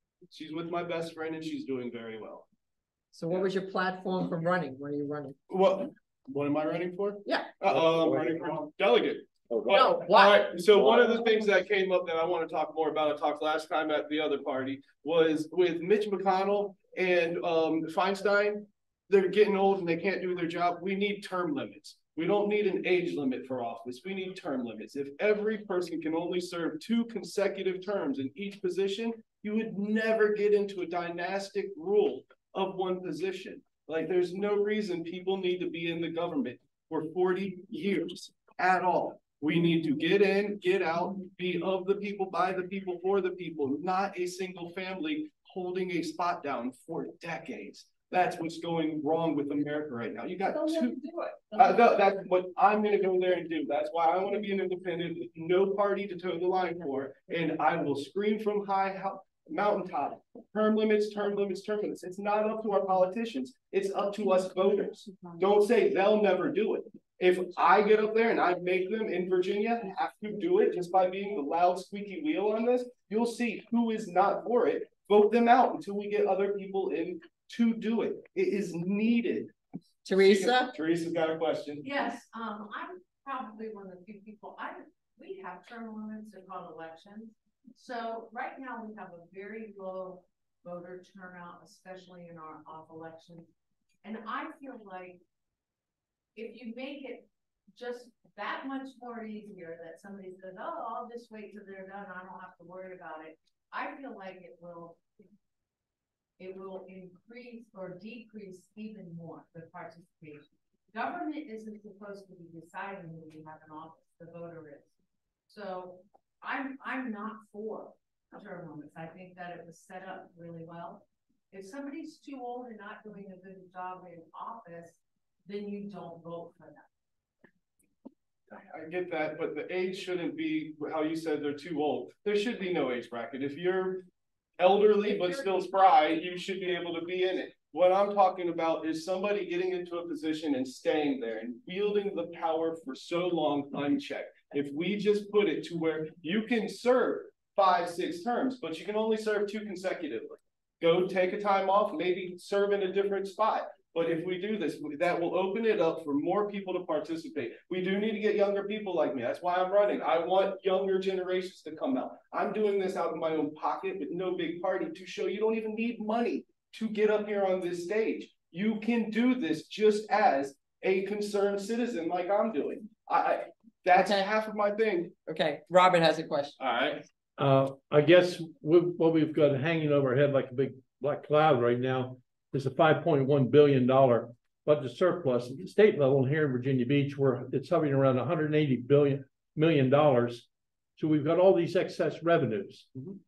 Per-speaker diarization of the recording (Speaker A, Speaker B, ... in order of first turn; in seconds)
Speaker A: 0.3-2.5, 5.5-79.5, 80.1-81.9, 128.5-134.1, 134.6-175.1, 176.6-177.1
Speaker B: 3.1-5.4, 7.2-7.5, 9.7-10.6, 80.0-80.7, 173.9-174.2, 175.3-176.6
Speaker C: 81.8-93.5, 94.0-95.2, 96.3-105.0, 106.4-114.9, 115.5-126.9
Speaker D: 177.4-192.9